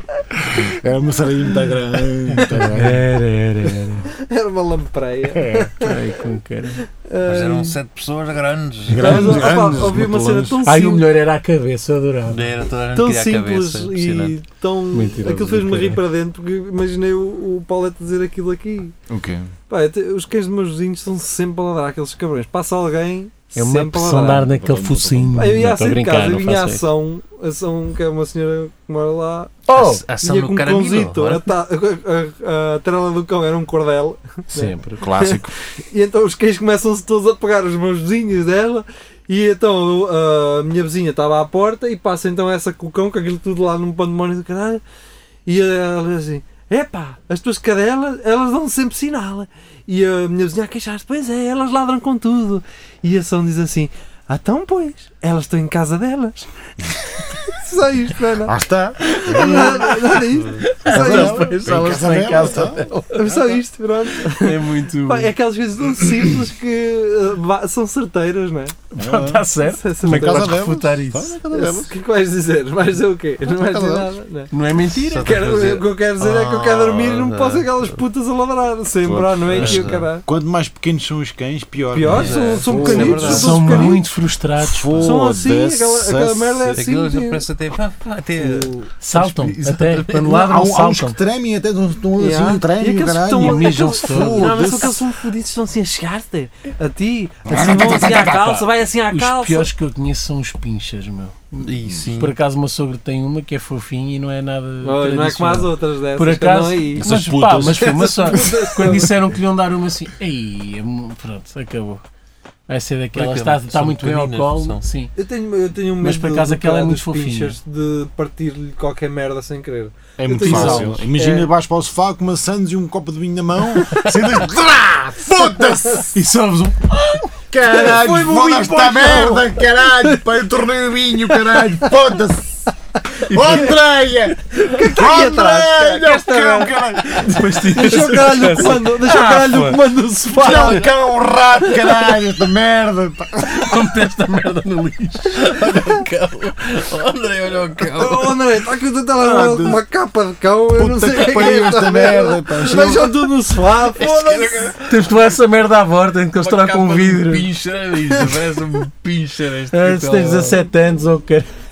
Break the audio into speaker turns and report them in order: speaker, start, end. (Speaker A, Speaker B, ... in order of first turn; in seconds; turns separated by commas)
Speaker A: 0.5-3.0, Speaker B: 2.5-4.1, Speaker C: 4.2-6.0, Speaker A: 5.3-5.7, Speaker B: 5.8-6.8, Speaker C: 7.0-7.7, Speaker D: 7.2-9.5, Speaker A: 8.9-10.6, Speaker C: 9.0-11.0, Speaker B: 10.6-12.4, Speaker D: 12.3-14.4, Speaker C: 12.9-18.9, Speaker B: 14.9-16.0, Speaker A: 19.1-19.5, Speaker C: 19.7-24.5, Speaker B: 23.5-26.8, Speaker A: 24.2-25.6, Speaker C: 25.4-29.6, Speaker B: 29.7-30.0, Speaker D: 29.7-31.5, Speaker C: 30.2-44.8, Speaker B: 34.5-35.0, Speaker A: 35.0-35.5, Speaker C: 45.5-56.5, Speaker C: 57.4-58.5, Speaker A: 58.4-60.0, Speaker C: 59.2-61.8, Speaker B: 59.2-63.6, Speaker A: 60.8-62.8, Speaker C: 63.1-68.8, Speaker B: 64.2-65.3, Speaker B: 68.9-71.8, Speaker A: 69.0-69.5, Speaker C: 69.6-70.7, Speaker A: 70.0-71.9, Speaker C: 71.5-74.5, Speaker A: 73.4-74.1, Speaker B: 74.5-75.3, Speaker D: 75.1-78.0, Speaker C: 75.2-80.2, Speaker A: 79.0-84.0, Speaker D: 79.5-80.1, Speaker B: 79.6-79.9, Speaker C: 81.9-84.0, Speaker D: 82.1-83.5, Speaker B: 82.8-85.2, Speaker A: 84.6-86.8, Speaker C: 85.0-87.4, Speaker D: 86.7-90.4, Speaker C: 88.4-88.7, Speaker B: 89.0-91.2, Speaker A: 90.2-95.0, Speaker C: 92.2-99.7, Speaker B: 93.3-94.9, Speaker A: 97.5-98.5, Speaker B: 97.6-112.0, Speaker D: 101.6-102.3, Speaker A: 101.8-102.1, Speaker C: 104.8-109.1, Speaker A: 107.0-108.1, Speaker B: 112.7-115.1, Speaker D: 113.1-114.8, Speaker C: 115.2-121.5, Speaker B: 116.0-117.6, Speaker A: 120.2-126.2, Speaker B: 120.4-121.0, Speaker B: 126.1-127.4, Speaker A: 127.5-132.7, Speaker C: 127.6-130.2, Speaker B: 128.8-129.3, Speaker C: 131.3-131.9, Speaker A: 133.3-134.4, Speaker B: 133.3-133.8, Speaker C: 134.6-136.8, Speaker A: 134.9-137.4, Speaker B: 137.1-139.8, Speaker C: 137.7-140.9, Speaker A: 140.4-143.7, Speaker C: 141.6-141.9, Speaker B: 143.5-146.0, Speaker D: 145.3-148.4, Speaker C: 148.0-154.7, Speaker A: 149.2-149.8, Speaker A: 150.8-153.1, Speaker D: 153.8-155.1, Speaker B: 154.8-157.5, Speaker D: 156.3-160.6, Speaker B: 159.7-161.5